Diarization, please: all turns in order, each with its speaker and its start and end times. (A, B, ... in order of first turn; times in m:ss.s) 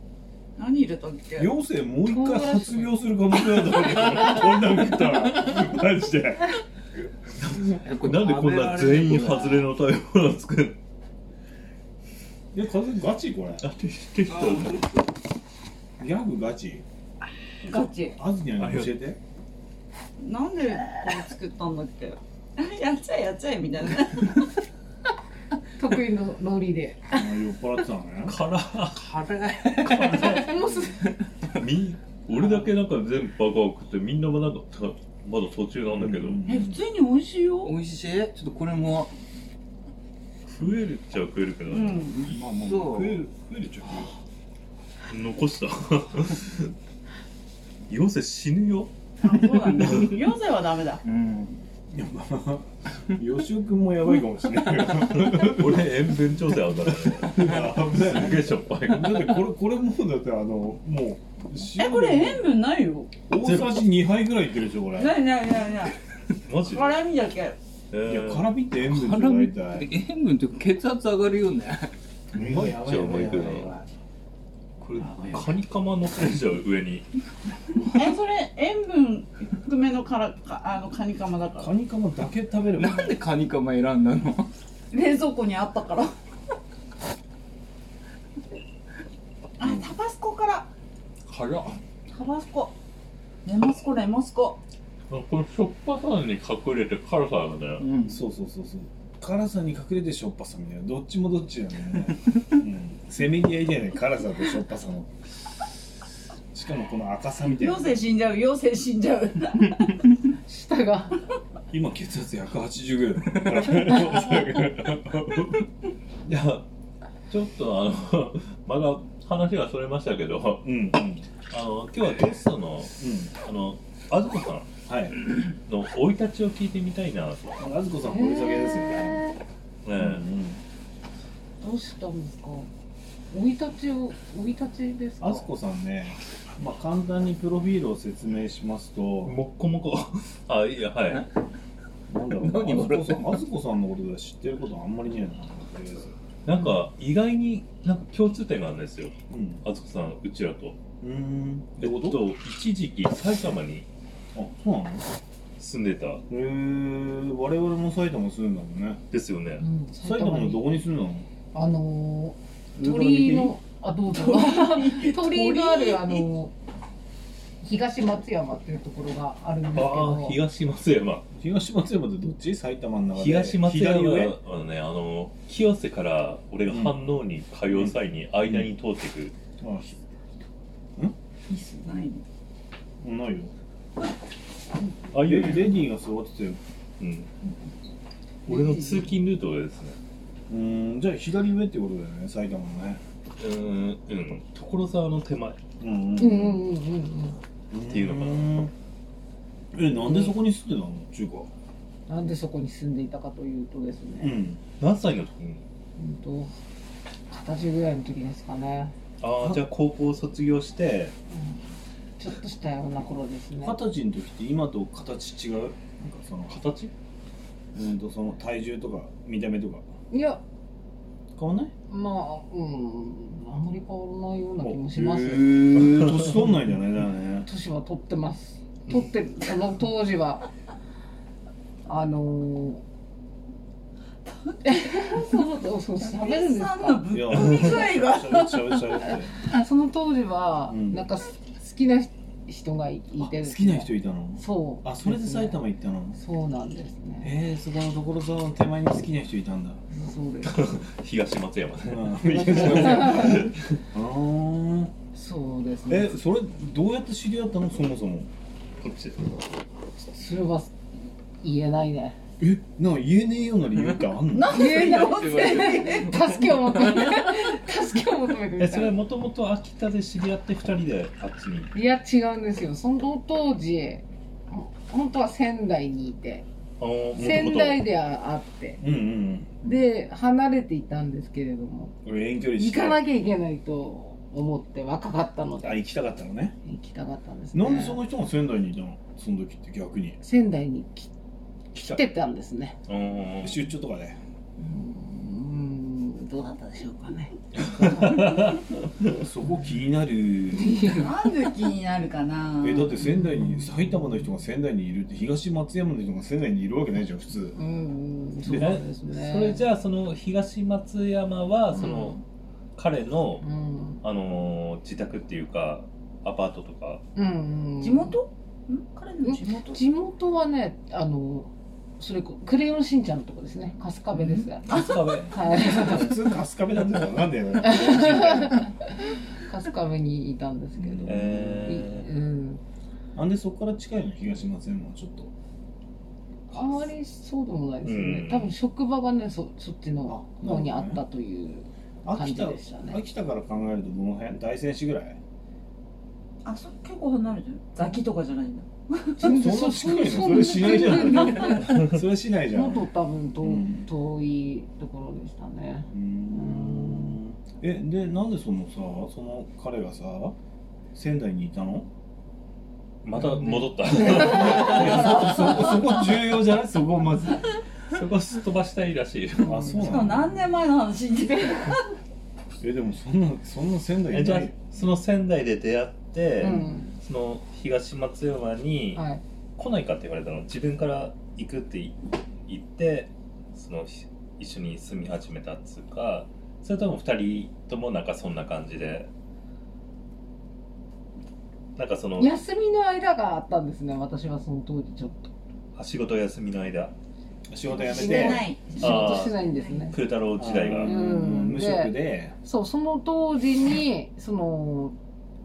0:00.6-0:01.5 A
0:01.4-0:06.6 B
0:02.1-0:03.0 C
0:07.8-0:09.7 D
0:08.0-0:10.8 E
0:12.5-0:13.6 B
0:13.6-0:14.9 E
0:14.3-0:15.0 D
0:16.0-0:16.8 B
0:17.6-0:19.2 B
0:17.6-0:18.2 A
0:18.6-0:18.9 E
0:20.2-0:24.4 A
0:25.8-0:27.2 C
0:27.1-0:28.4 B
0:28.3-0:29.1 E
0:28.9-0:30.5 D
0:29.9-0:30.4 E
0:30.1-0:31.1 C
0:31.5-0:36.4 E
0:35.9-0:36.8 B
0:36.5-0:37.8 A
0:37.6-0:39.1 D
0:40.5-0:42.1 E
0:41.7-0:42.3 A
0:42.2-0:44.1 B
0:42.2-0:43.2 D
0:45.1-0:46.7 E
0:47.9-0:48.9 E
0:49.2-0:51.0 A
0:51.0-0:51.6 D
0:51.9-0:55.9 B
0:55.0-0:59.4 E
0:57.0-1:02.5 B
1:01.6-1:03.1 A
1:03.3-1:05.2 B
1:03.3-1:03.8 E
1:04.9-1:06.0 A
1:06.5-1:07.0 E
1:06.6-1:07.6 A
1:07.9-1:08.5 E
1:08.0-1:09.9 B
1:08.9-1:11.9 D
1:12.3-1:13.9 B
1:12.4-1:13.7 E
1:14.8-1:15.5 D
1:15.3-1:17.1 E
1:18.0-1:21.7 A
1:21.6-1:23.2 B
1:22.8-1:24.5 D
1:24.9-1:26.1 A
1:29.6-1:30.7 A
1:29.6-1:29.9 B
1:31.3-1:31.8 D
1:32.1-1:32.7 A
1:33.4-1:34.6 A
1:35.1-1:37.8 E
1:37.8-1:38.2 D
1:38.1-1:45.1 B
1:46.5-1:48.0 B
1:47.5-1:50.0 A
1:50.5-1:51.2 C
1:51.7-1:55.6 B
1:56.2-1:56.7 E
1:57.3-2:00.7 E
2:00.6-2:01.2 B
2:01.5-2:04.7 E
2:03.0-2:03.3 B
2:04.9-2:05.2 B
2:05.7-2:07.6 E
2:07.6-2:09.2 B
2:08.1-2:09.4 C
2:09.8-2:10.2 E
2:10.0-2:10.6 B
2:11.6-2:12.7 C
2:13.3-2:15.5 C
2:15.2-2:19.4 B
2:19.2-2:21.3 E
2:22.1-2:26.2 B
2:22.4-2:23.4 D
2:26.4-2:30.8 E
2:29.3-2:29.6 B
2:31.0-2:32.2 B
2:31.8-2:33.9 E
2:34.4-2:35.1 B
2:35.6-2:36.2 E
2:36.3-2:39.0 B
2:39.1-2:39.6 E
2:39.6-2:40.7 C
2:40.0-2:41.3 B
2:41.5-2:46.5 C
2:42.8-2:43.5 B
2:44.1-2:45.9 D
2:47.6-2:50.4 C
2:49.8-2:51.3 E
2:51.4-2:54.4 B
2:53.2-2:59.3 E
2:56.7-2:57.0 B
2:57.7-2:58.7 B
2:59.6-3:00.0 B
3:01.5-3:02.2 A
3:03.0-3:03.5 B
3:05.1-3:05.9 E
3:05.2-3:06.6 B
3:07.0-3:07.3 E
3:08.5-3:10.0 E
3:08.5-3:09.1 C
3:10.5-3:13.0 B
3:13.4-3:15.6 E
3:15.8-3:16.6 B
3:16.2-3:17.4 C
3:17.7-3:18.7 B
3:17.9-3:18.7 E
3:19.7-3:21.5 B
3:20.0-3:20.3 C
3:22.1-3:24.4 C
3:24.2-3:24.6 B
3:24.8-3:25.6 E
3:26.0-3:26.5 C
3:27.3-3:28.9 C
3:29.2-3:31.2 E
3:31.3-3:31.6 C
3:32.2-3:33.8 C
3:33.6-3:36.6 B
3:36.5-3:36.9 E
3:37.7-3:39.8 B
3:40.1-3:40.4 C
3:41.4-3:41.7 B
3:41.9-3:46.2 C
3:44.6-3:47.5 B
3:47.4-3:50.5 C
3:51.9-3:52.8 C
3:54.3-3:55.5 A
3:54.6-3:57.0 C
3:56.0-3:59.0 A
3:57.1-3:59.3 B
3:59.5-4:05.6 C
4:00.7-4:01.0 B
4:03.2-4:06.2 B
4:06.2-4:07.3 C
4:07.2-4:09.8 B
4:09.9-4:10.6 C
4:10.4-4:13.8 E
4:11.9-4:14.9 B
4:12.3-4:13.5 C
4:15.1-4:16.1 C
4:15.9-4:18.3 B
4:18.8-4:19.3 E
4:20.1-4:20.8 C
4:21.4-4:22.2 C
4:22.4-4:24.8 B
4:24.3-4:26.1 A
4:24.5-4:29.0 C
4:24.8-4:27.2 D
4:28.6-4:31.7 E
4:31.7-4:36.5 C
4:36.8-4:37.8 E
4:37.2-4:38.8 C
4:38.8-4:39.6 B
4:39.6-4:41.9 C
4:42.0-4:43.0 B
4:42.6-4:45.8 C
4:45.6-4:46.6 B
4:46.6-4:48.0 C
4:47.5-4:50.2 B
4:50.2-4:51.1 C
4:51.7-4:52.8 C
4:52.9-4:53.6 E
4:53.4-4:54.2 B
4:54.6-4:58.4 C
4:57.8-4:58.7 E
4:59.0-5:00.9 B
5:00.6-5:01.1 C
5:00.9-5:03.1 A
5:02.6-5:07.6 B
5:03.2-5:03.7 C
5:07.6-5:09.6 C
5:08.5-5:08.8 B
5:08.5-5:12.2 E
5:12.8-5:13.4 E
5:13.4-5:14.0 C
5:14.0-5:17.0 E
5:17.2-5:18.2 C
5:17.8-5:19.8 A
5:19.2-5:26.2 C
5:24.4-5:25.3 A
5:24.7-5:26.1 E
5:25.5-5:28.7 B
5:27.6-5:32.6 C
5:30.8-5:31.6 B
5:31.1-5:32.1 E
5:33.2-5:35.3 B
5:36.5-5:43.0 C
5:36.5-5:36.9 B
5:37.8-5:38.5 E
5:40.1-5:41.0 B
5:42.0-5:45.2 B
5:46.4-5:49.4 A
5:49.2-5:51.8 C
5:49.2-5:52.9 B
5:51.6-5:52.0 E
5:52.5-5:57.2 C
5:53.4-5:53.9 B
5:55.9-6:00.4 B
6:01.0-6:01.9 B
6:03.0-6:05.6 E
6:03.4-6:04.9 C
6:03.6-6:07.5 B
6:07.9-6:09.8 E
6:09.4-6:09.8 C
6:09.4-6:10.5 B
6:09.8-6:11.8 A
6:12.6-6:14.5 B
6:14.1-6:19.0 E
6:16.4-6:16.9 C
6:19.0-6:19.2 C
6:19.6-6:29.1 E
6:31.8-6:32.3 E
6:32.2-6:35.3 C
6:35.8-6:36.9 E
6:37.5-6:38.5 B
6:37.7-6:39.9 A
6:37.9-6:40.0 C
6:38.8-6:40.9 E
6:40.4-6:42.3 B
6:40.8-6:45.0 C